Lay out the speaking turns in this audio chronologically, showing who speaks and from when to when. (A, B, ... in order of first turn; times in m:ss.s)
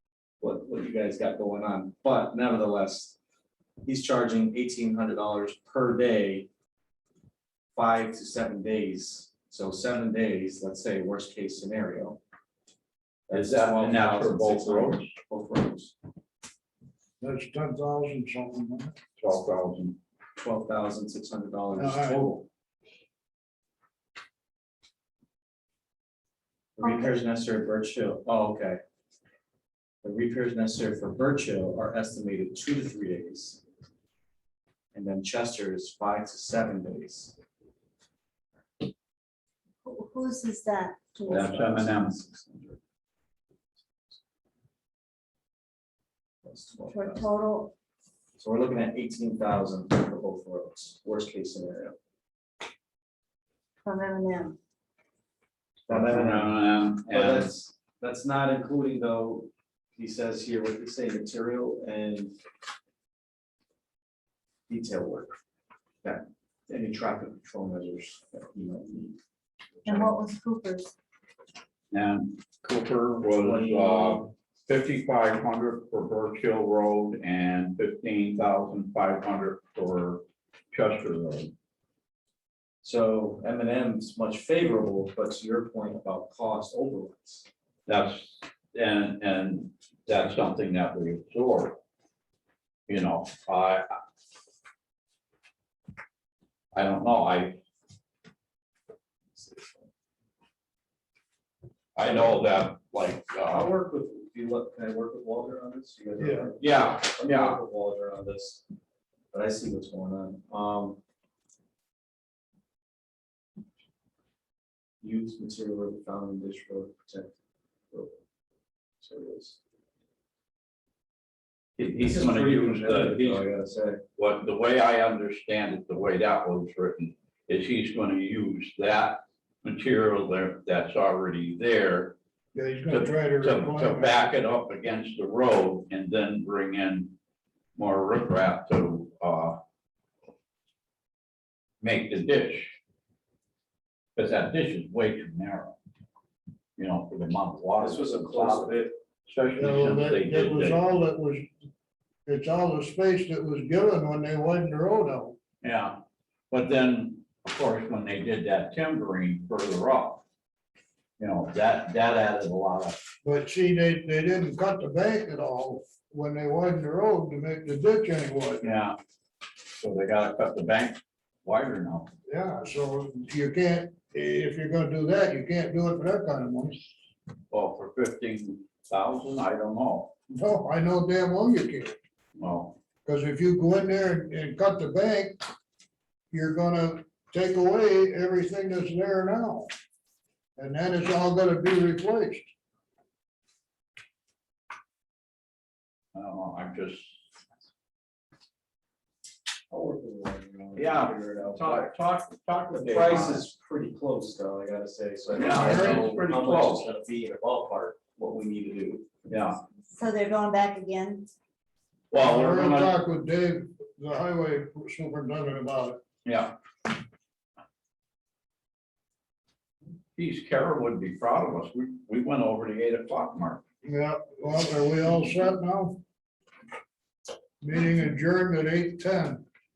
0:00.4-0:03.2 A
0:03.8-0:06.5 A
0:07.7-0:12.2 A
0:13.3-0:16.0 A
0:13.3-0:15.1 B
0:17.2-0:19.0 C
0:19.2-0:20.0 B
0:20.4-0:22.5 A
0:21.8-0:22.2 C
0:26.8-0:28.8 A
0:26.8-0:27.1 D
0:30.0-0:33.6 A
0:34.9-0:37.4 A
0:39.8-0:41.5 D
0:41.3-0:42.8 A
0:41.3-0:42.2 B
0:46.4-0:47.3 A
0:46.9-0:47.7 D
0:48.4-0:52.0 A
0:53.8-0:54.6 D
0:55.9-0:57.5 B
0:55.9-1:02.4 A
1:04.7-1:05.4 A
1:06.0-1:09.2 A
1:09.8-1:10.2 A
1:09.9-1:10.9 D
1:11.9-1:21.5 B
1:13.3-1:14.3 A
1:22.8-1:27.5 A
1:27.9-1:31.8 B
1:32.9-1:33.9 B
1:36.7-1:37.6 B
1:39.3-1:39.9 A
1:42.0-1:43.7 B
1:42.0-1:42.4 A
1:43.5-1:48.6 A
1:46.2-1:46.5 C
1:46.6-1:47.6 B
1:49.3-1:51.0 A
1:55.0-1:57.3 A
1:57.9-1:58.2 A
1:59.0-1:59.6 A
2:01.8-2:03.4 B
2:02.0-2:04.0 A
2:04.2-2:12.2 B
2:12.5-2:14.3 C
2:12.9-2:17.1 B
2:17.8-2:19.6 B
2:21.8-2:22.7 B
2:24.2-2:25.8 B
2:26.8-2:30.8 B
2:27.8-2:29.0 A
2:29.6-2:31.5 C
2:32.3-2:35.4 C
2:35.6-2:40.2 B
2:41.2-2:43.0 B
2:43.2-2:48.7 C
2:48.6-2:49.0 B
2:49.8-2:52.1 B
2:52.3-2:56.9 C
2:57.5-3:00.1 B
3:00.3-3:02.0 C
3:02.4-3:02.8 B
3:03.0-3:05.4 C
3:06.3-3:09.7 C
3:10.6-3:12.5 C
3:16.1-3:17.2 B
3:19.7-3:21.9 A
3:20.8-3:23.5 B
3:22.7-3:29.1 A
3:25.3-3:26.9 B
3:25.5-3:26.1 C
3:29.3-3:29.6 B
3:29.9-3:31.3 D
3:32.1-3:33.0 B
3:32.2-3:36.0 C
3:36.2-3:36.6 B
3:40.2-3:43.6 B
3:43.8-3:46.0 C
3:47.6-3:49.4 C